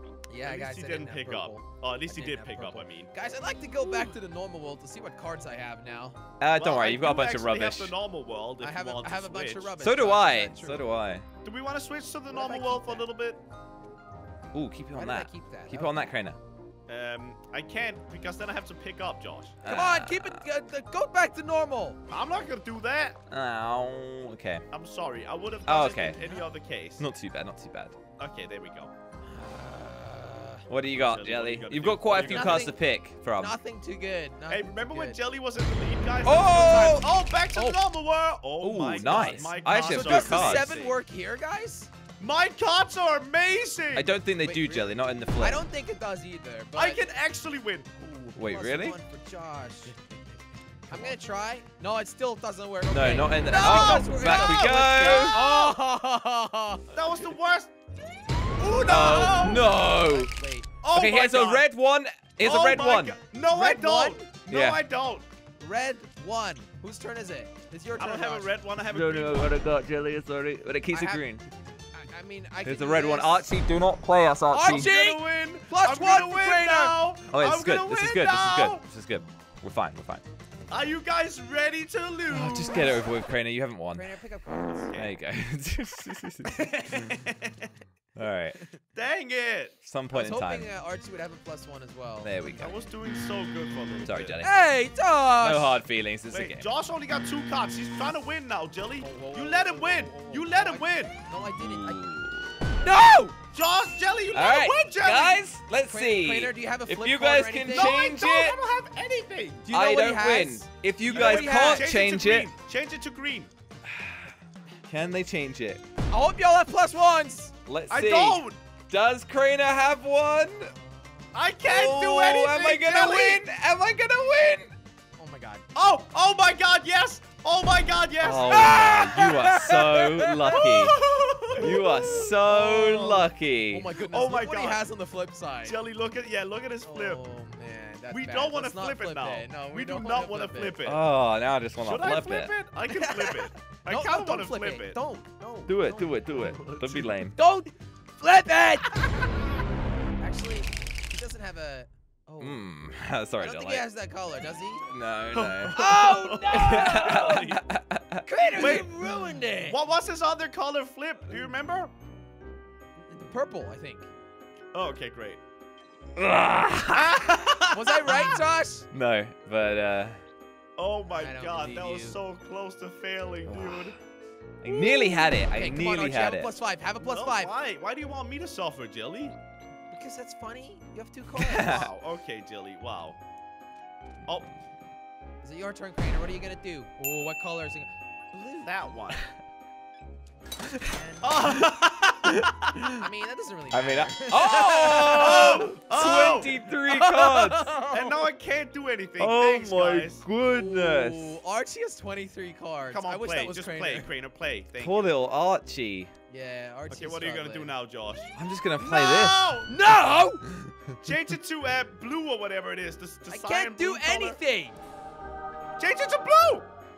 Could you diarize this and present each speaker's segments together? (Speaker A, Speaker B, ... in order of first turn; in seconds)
Speaker A: 0.3-6.2, 8.6-10.8, 12.3-13.1, 14.9-16.1, 19.7-22.0, 29.3-30.7, 32.1-32.8, 33.4-35.2, 36.5-37.8, 39.0-41.9, 44.4-47.0, 48.4-49.9, 50.9-57.0, 58.6-60.7, 63.5-64.2, 65.6-68.5, 70.9-71.2, 71.9-73.5, 74.5-77.0, 83.9-84.9, 90.1-92.3, 94.4-95.8, 99.0-102.0, 102.8-103.4, 105.9-108.0, 109.7-111.9, 116.1-117.5, 120.8-121.2, 125.2-125.7, 128.5-132.3, 133.7-135.8, 136.9-140.8, 142.9-146.2, 147.4-149.1, 150.2-152.7, 153.4-154.9, 155.7-157.6, 158.2-159.8, 163.1-164.1, 167.7-168.9, 171.1-172.2, 174.7-177.5, 179.9-181.9, 185.4-188.9, 190.8-191.4, 192.9-195.8, 196.9-198.3, 200.5-204.1, 206.3-207.8, 209.7-210.4, 213.3-214.8
Speaker B: 0.4-3.1, 6.5-9.8, 11.4-13.4, 16.9-19.6, 22.1-23.2, 24.7-27.1, 28.2-28.9, 30.9-32.7, 34.5-41.0, 42.2-44.2, 46.8-48.3, 53.6-55.8, 56.9-57.7, 58.3-59.8, 60.8-61.7, 62.4-65.3, 68.0-69.6, 74.7-78.8, 80.7-83.0, 84.8-85.1, 86.5-87.7, 88.9-89.8, 92.6-94.4, 96.3-101.2, 103.5-105.5, 107.7-109.7, 111.1-113.5, 117.9-118.6, 121.3-123.5, 125.7-129.1, 130.5-133.3, 134.1-134.9, 135.6-137.2, 138.1-141.1, 141.8-145.0, 146.3-147.2, 155.3-157.7, 158.6-158.9, 159.6-161.9, 164.7-165.4, 166.9-168.1, 170.8-174.0, 174.7-175.2, 177.0-179.4, 181.6-183.2, 188.7-189.2, 191.2-192.5, 194.4-196.6, 197.9-200.2, 202.9-205.2, 206.9-209.7, 211.0-214.4, 215.8-216.7
Speaker C: 6.4-7.9, 9.8-11.3, 14.5-16.4, 19.6-20.4, 23.3-24.6, 25.7-26.2, 27.0-28.0, 30.7-33.6, 36.2-37.1, 38.6-40.7, 43.9-45.6, 48.4-49.0, 52.9-55.4, 58.8-60.3, 60.9-63.2, 64.5-64.8, 68.9-71.4, 72.7-74.9, 77.3-80.2, 82.3-84.1, 85.0-87.1, 88.2-88.6, 89.8-90.7, 92.2-92.8, 94.1-94.5, 95.4-96.7, 101.6-102.6, 104.3-108.6, 109.7-112.5, 113.8-114.3, 114.9-115.8, 117.7-120.7, 121.7-124.8, 128.2-131.0, 131.6-133.9, 140.8-142.5, 145.7-147.4, 152.4-153.8, 154.9-158.8, 166.2-167.6, 168.9-170.2, 173.5-174.0, 174.6-176.5, 181.4-181.9, 192.3-193.1, 193.7-197.8, 199.2-201.4, 204.8-206.1, 208.4-209.6